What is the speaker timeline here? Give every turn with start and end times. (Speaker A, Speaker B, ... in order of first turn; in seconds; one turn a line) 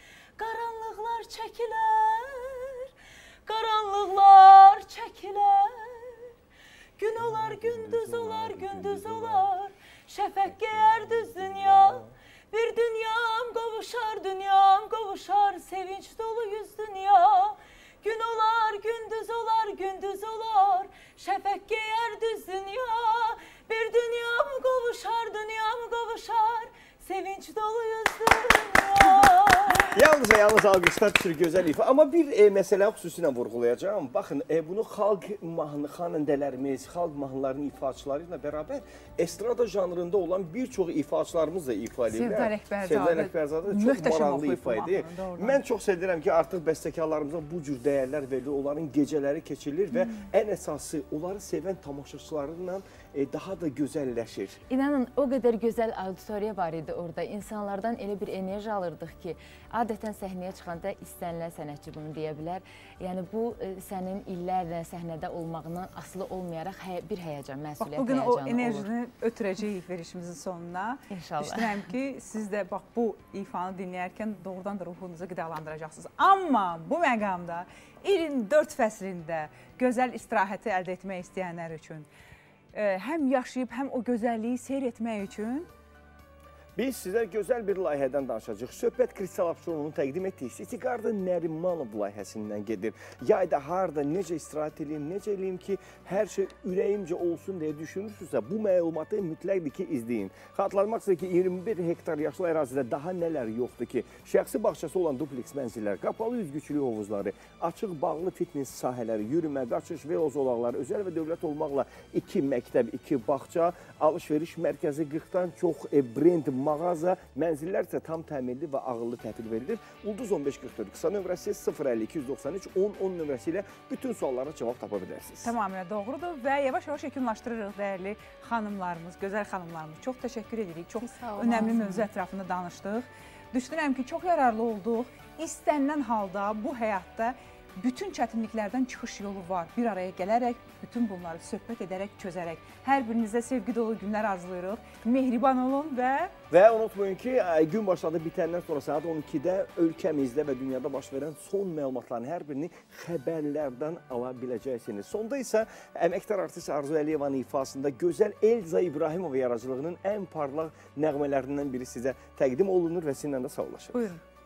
Speaker A: 0.4-2.9
Speaker A: 3.5-6.3
Speaker A: 7.0-30.0
Speaker B: 7.2-9.5
Speaker B: 10.7-12.1
Speaker B: 29.9-54.6
Speaker C: 42.1-45.6
Speaker C: 50.0-50.3
Speaker D: 54.7-68.9
Speaker C: 67.8-82.1
Speaker D: 71.1-71.9
Speaker C: 82.7-85.7
Speaker B: 86.8-125.5
Speaker C: 125.4-146.3
Speaker A: 131.1-132.0
Speaker B: 146.5-164.1
Speaker C: 163.9-164.2